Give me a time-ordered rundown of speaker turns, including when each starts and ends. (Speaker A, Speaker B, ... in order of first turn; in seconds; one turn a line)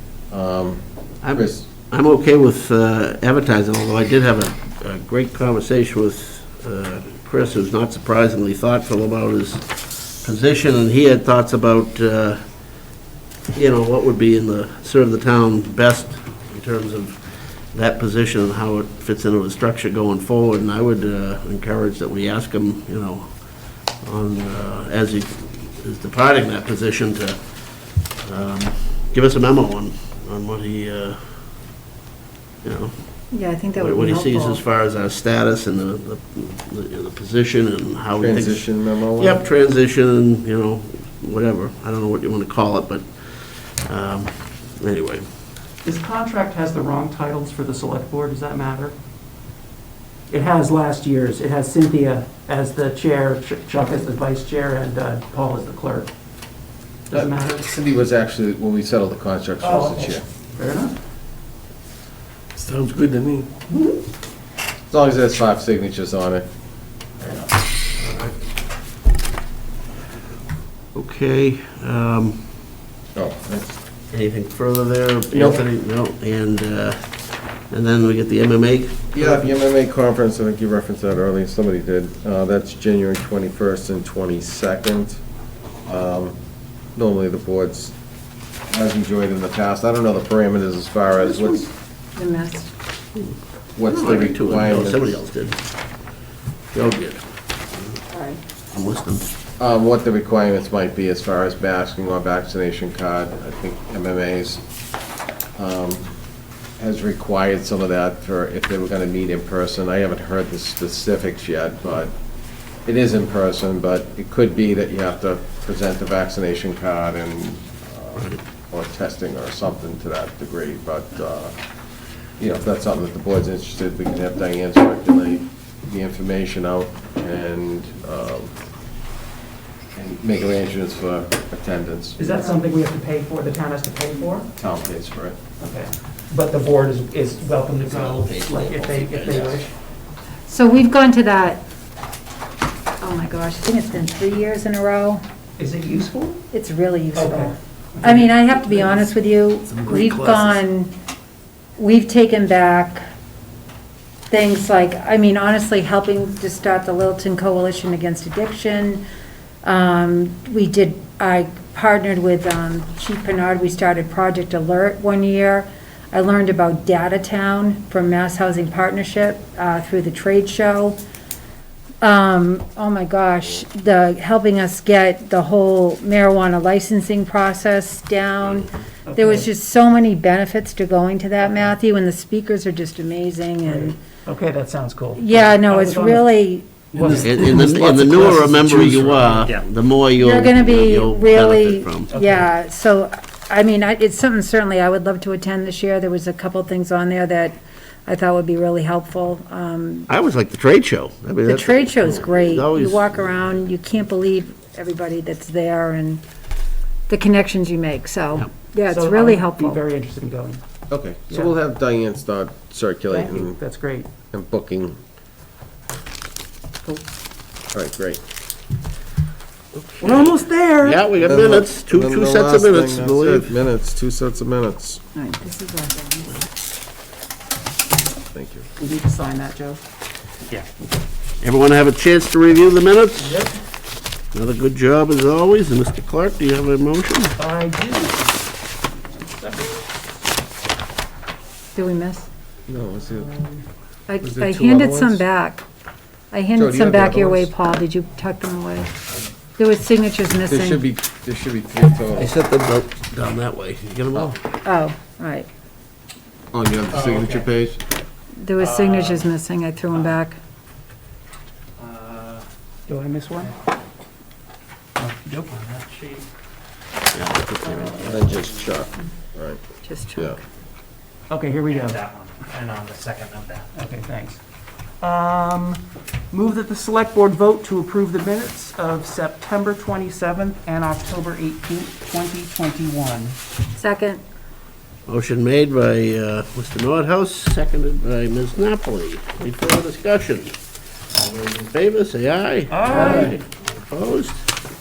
Speaker A: 0.3-1.7
Speaker B: 1.2-12.8
Speaker B: 13.5-31.2
Speaker B: 32.6-33.0
Speaker C: 33.3-34.6
Speaker B: 33.7-45.2
Speaker A: 38.2-39.4
Speaker D: 45.8-49.0
Speaker D: 50.3-56.1
Speaker D: 57.1-57.7
Speaker A: 57.1-60.2
Speaker D: 59.6-60.9
Speaker A: 62.5-63.5
Speaker A: 64.9-66.5
Speaker B: 68.0-68.3
Speaker B: 70.9-72.5
Speaker A: 73.1-73.8
Speaker B: 74.1-79.5
Speaker A: 75.3-75.6
Speaker A: 79.1-85.2
Speaker A: 85.8-86.4
Speaker A: 86.9-87.9
Speaker A: 88.7-91.7
Speaker C: 92.2-92.7
Speaker A: 93.8-95.2
Speaker B: 93.9-95.6
Speaker B: 96.7-98.0
Speaker C: 98.1-98.4
Speaker B: 98.7-99.3
Speaker A: 99.6-104.6
Speaker A: 105.5-106.0
Speaker A: 106.8-112.1
Speaker A: 112.8-121.5
Speaker A: 122.4-128.5
Speaker A: 129.9-132.2
Speaker D: 132.2-134.5
Speaker A: 134.6-135.4
Speaker D: 135.6-139.7
Speaker B: 137.8-139.6
Speaker C: 140.5-141.6
Speaker C: 143.0-145.2
Speaker D: 145.6-146.4
Speaker C: 146.5-150.9
Speaker D: 147.1-149.0
Speaker B: 149.7-150.6
Speaker C: 151.8-153.0
Speaker C: 154.3-159.0
Speaker C: 159.6-171.0
Speaker C: 172.0-184.0
Speaker D: 179.1-179.5
Speaker D: 181.4-181.7
Speaker D: 183.6-186.3
Speaker C: 185.2-187.8
Speaker D: 186.9-189.4
Speaker B: 187.1-192.1
Speaker C: 190.2-200.1
Speaker D: 192.1-192.5
Speaker B: 200.1-203.3
Speaker C: 201.4-206.2
Speaker C: 207.1-209.8
Speaker D: 208.9-210.6
Speaker A: 210.9-213.6
Speaker D: 211.3-211.5
Speaker D: 213.1-214.1
Speaker A: 214.3-215.0
Speaker A: 217.7-218.2
Speaker B: 219.7-223.6
Speaker D: 220.0-221.3
Speaker A: 221.2-225.0
Speaker C: 225.1-226.4
Speaker A: 228.3-228.7
Speaker D: 228.8-229.8
Speaker B: 231.4-233.4
Speaker D: 233.2-233.5
Speaker B: 234.3-237.3
Speaker D: 237.4-238.3
Speaker D: 239.1-239.8
Speaker C: 241.7-242.3
Speaker A: 242.7-243.4
Speaker D: 243.3-243.6
Speaker C: 244.1-245.6
Speaker A: 244.2-245.2
Speaker C: 246.3-248.9
Speaker A: 246.6-247.5
Speaker C: 249.6-250.8
Speaker A: 250.5-252.3
Speaker B: 252.1-254.4
Speaker C: 254.6-255.5
Speaker A: 256.5-257.8
Speaker E: 256.9-257.5
Speaker C: 258.4-260.4
Speaker E: 258.6-259.3
Speaker E: 259.9-260.2
Speaker E: 261.8-262.5
Speaker D: 262.9-263.5
Speaker E: 263.4-263.7
Speaker D: 265.0-265.5
Speaker E: 265.5-266.3
Speaker B: 267.1-268.4
Speaker A: 268.0-269.6
Speaker C: 269.8-270.4
Speaker D: 271.3-272.0
Speaker E: 271.6-273.7
Speaker D: 273.7-274.4
Speaker D: 275.0-283.4
Speaker C: 283.8-284.2
Speaker B: 285.1-290.6
Speaker B: 291.2-294.4
Speaker D: 292.7-293.4
Speaker A: 292.9-293.4